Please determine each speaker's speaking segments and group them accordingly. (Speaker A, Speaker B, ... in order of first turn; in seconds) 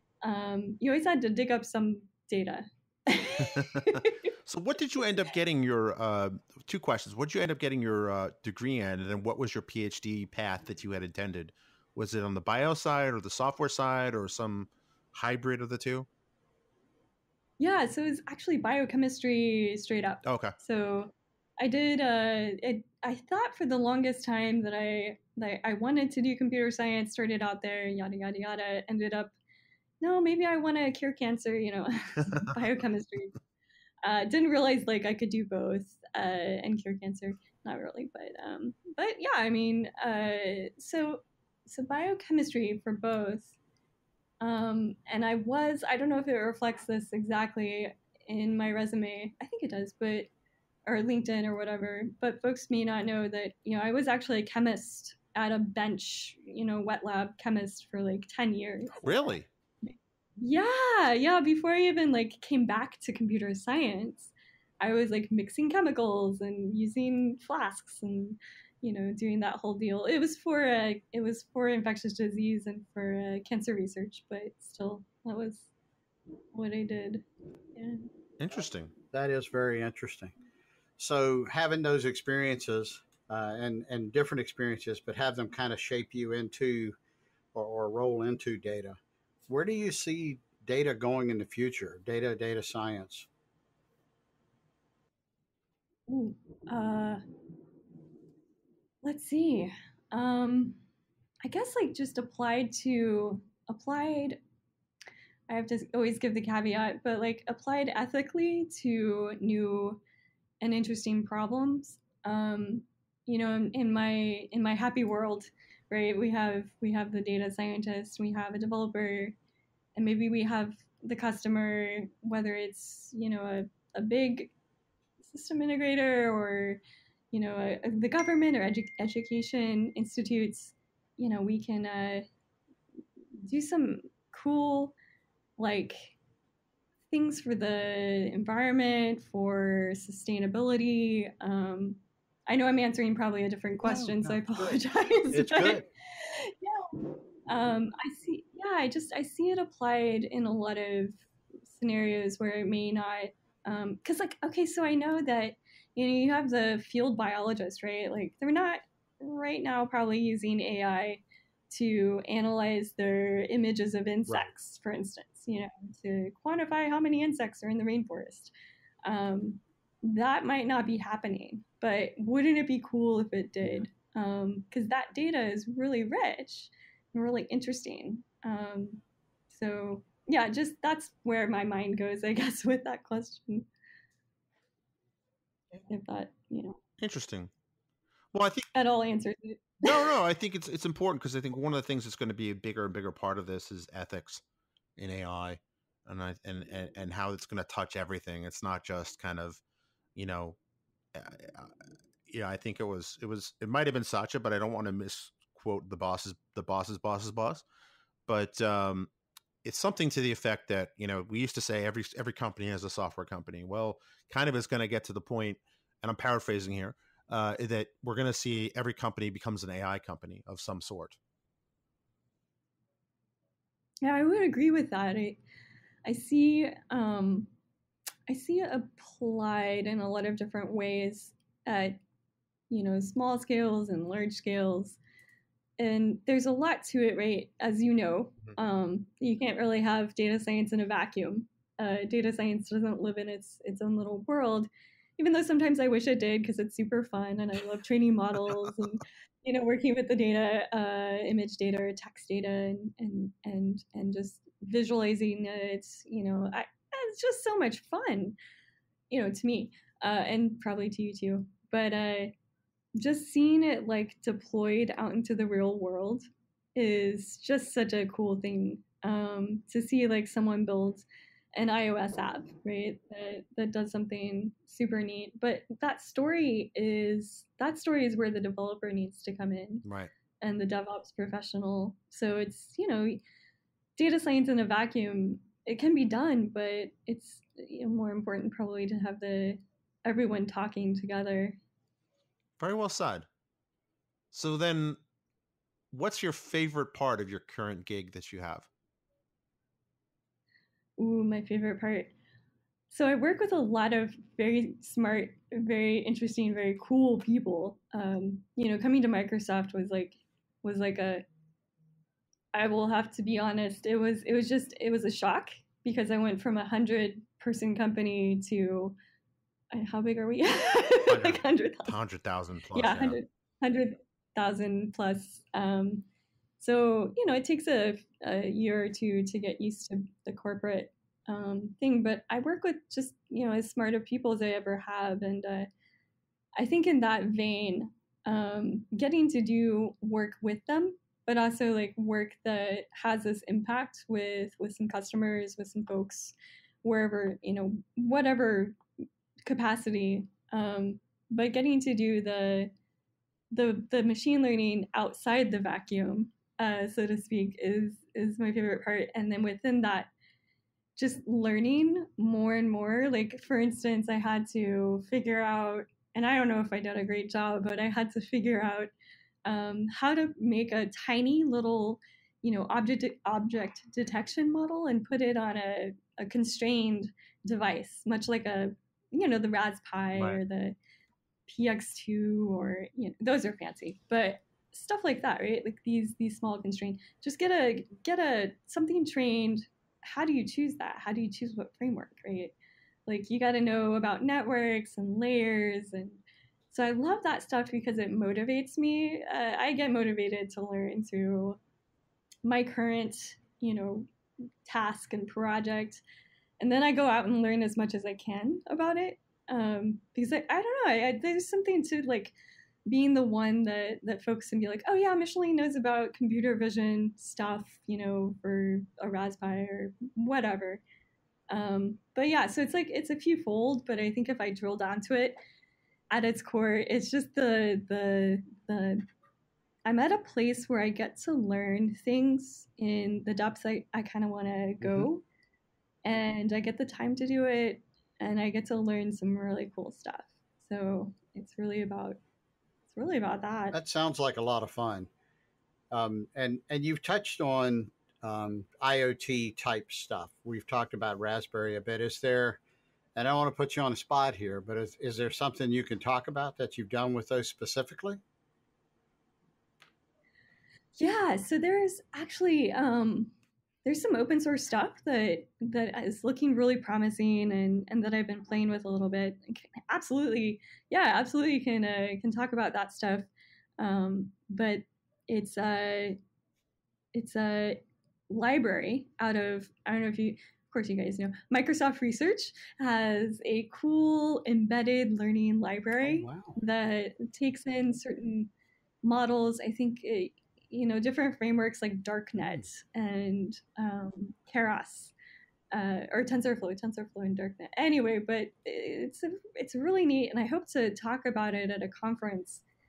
Speaker A: 0.2-4.1, 17.6-29.3, 30.0-33.4, 34.0-43.5, 44.4-50.3, 50.9-75.7, 76.5-78.1, 96.1-97.2, 99.0-100.8, 101.4-104.4, 105.5-110.0, 110.6-119.3, 119.9-124.5, 125.2-126.8, 127.3-132.3, 133.4-134.9, 135.6-136.2, 137.1-146.9, 147.5-168.5, 169.0-183.7, 185.9-186.8, 188.7-190.1, 224.0-225.4, 226.0-227.5, 228.3-232.0, 232.7-235.0, 235.8-258.4, 259.1-262.3, 262.9-279.8, 280.4-283.2, 284.0-291.6, 301.0-302.1, 302.9-311.2, 312.5-318.9, 319.7-321.9, 322.7-326.1, 326.6-335.7, 336.6-348.8, 349.4-352.7, 353.5-360.1, 361.0-368.9, 369.4-380.8, 381.5-392.5, 393.1-401.6, 402.4-404.1, 404.6-406.0, 406.6-412.3, 412.9-420.8, 421.5-425.4, 426.1-429.1, 429.9-435.2, 436.0-442.2, 442.9-443.8, 461.0-463.3, 463.8-473.3, 473.8-476.2, 477.1-488.5, 489.0-495.1, 495.7-502.6
Speaker B: 3.4-16.1, 20.2-20.6, 59.0-59.5, 78.4-78.9, 187.0-187.5, 188.3-188.7, 189.8-194.4, 195.0-199.6, 200.2-200.6, 201.1-201.7, 202.3-207.6, 208.3-209.1, 209.6-221.2, 279.8-280.1, 292.6-293.3, 294.3-295.0, 295.9-298.7, 321.1-323.2, 380.1-380.4
Speaker C: 79.1-80.3, 81.0-87.0, 87.5-93.3, 143.8-144.8, 145.3-145.9, 443.7-445.1, 445.9-452.6, 453.1-458.2, 486.0-486.6